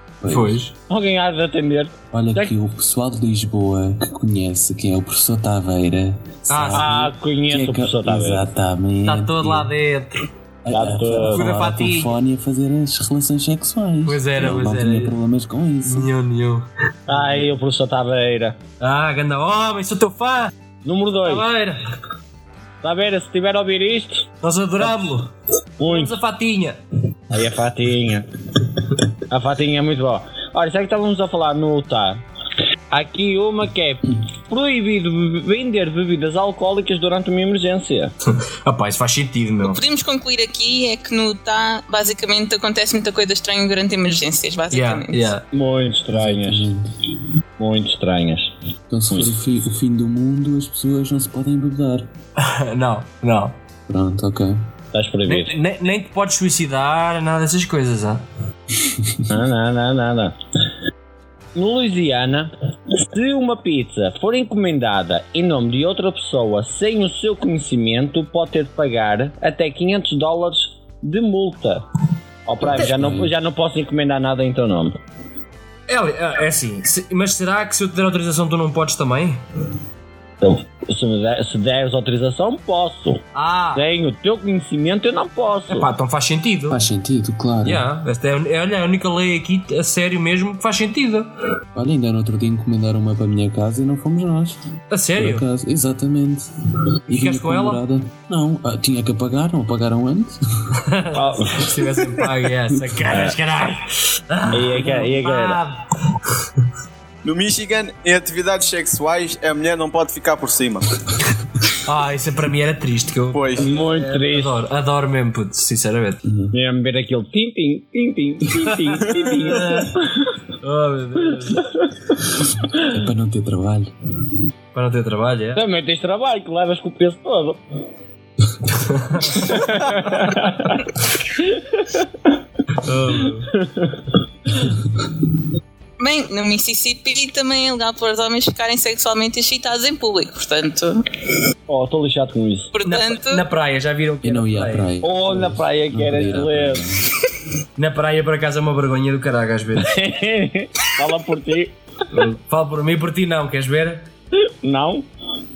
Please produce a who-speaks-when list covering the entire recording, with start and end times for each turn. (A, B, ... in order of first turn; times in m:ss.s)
0:00.2-0:00.6 A
0:00.3-0:00.7 B
0:00.9-0:02.5 C
0:02.1-0:09.7 A
0:06.5-0:07.0 B
0:06.7-0:08.4 C
0:09.0-0:10.2 B
0:10.6-0:16.1 A
0:10.7-0:11.4 C
0:11.3-0:12.1 B
0:14.0-0:15.1 B
0:15.9-0:17.4 B
0:17.1-0:18.6 C
0:18.8-0:20.5 B
0:20.8-0:21.5 C
0:21.2-0:21.8 B
0:22.8-0:24.3 C
0:24.4-0:25.3 B
0:25.8-0:26.2 C
0:25.8-0:26.8 B
0:27.3-0:28.3 C
0:29.3-0:32.2 C
0:32.9-0:38.1 C
0:38.3-0:39.8 B
0:39.6-0:45.3 D
0:44.7-0:45.4 B
0:45.5-0:46.7 C
0:46.1-0:46.9 A
0:47.6-0:48.5 C
0:48.9-0:52.1 A
0:52.4-0:53.6 B
0:53.9-0:54.6 A
0:54.9-0:55.6 C
0:55.3-0:58.2 B
0:59.0-0:59.2 A
0:59.3-1:00.4 C
1:01.5-1:11.8 C
1:12.4-1:15.0 C
1:12.7-1:13.3 A
1:15.9-1:19.4 B
1:20.4-1:25.9 C
1:23.3-1:23.8 B
1:25.7-1:26.8 B
1:26.7-1:27.8 A
1:27.6-1:31.3 B
1:31.7-1:34.6 A
1:34.9-1:35.4 B
1:35.2-1:36.4 A
1:37.1-1:40.4 A
1:37.1-1:37.8 B
1:40.8-1:45.8 B
1:41.1-1:41.9 C
1:44.5-1:45.6 C
1:47.2-1:50.8 E
1:51.8-1:56.2 B
1:53.3-1:53.7 E
1:53.6-1:54.6 C
1:56.2-1:56.5 A
1:56.5-2:00.3 C
1:59.2-2:00.0 B
2:00.6-2:01.7 B
2:02.7-2:03.9 A
2:04.7-2:05.6 B
2:05.5-2:07.6 C
2:08.7-2:10.8 B
2:09.3-2:12.3 C
2:12.7-2:13.5 B
2:13.6-2:14.0 C
2:16.0-2:21.0 D
2:21.7-2:22.7 C
2:22.7-2:23.4 D
2:22.8-2:24.9 B
2:24.2-2:27.0 A
2:25.0-2:26.8 C
2:27.8-2:29.9 B
2:29.8-2:31.8 C
2:32.1-2:34.1 B
2:34.6-2:35.0 C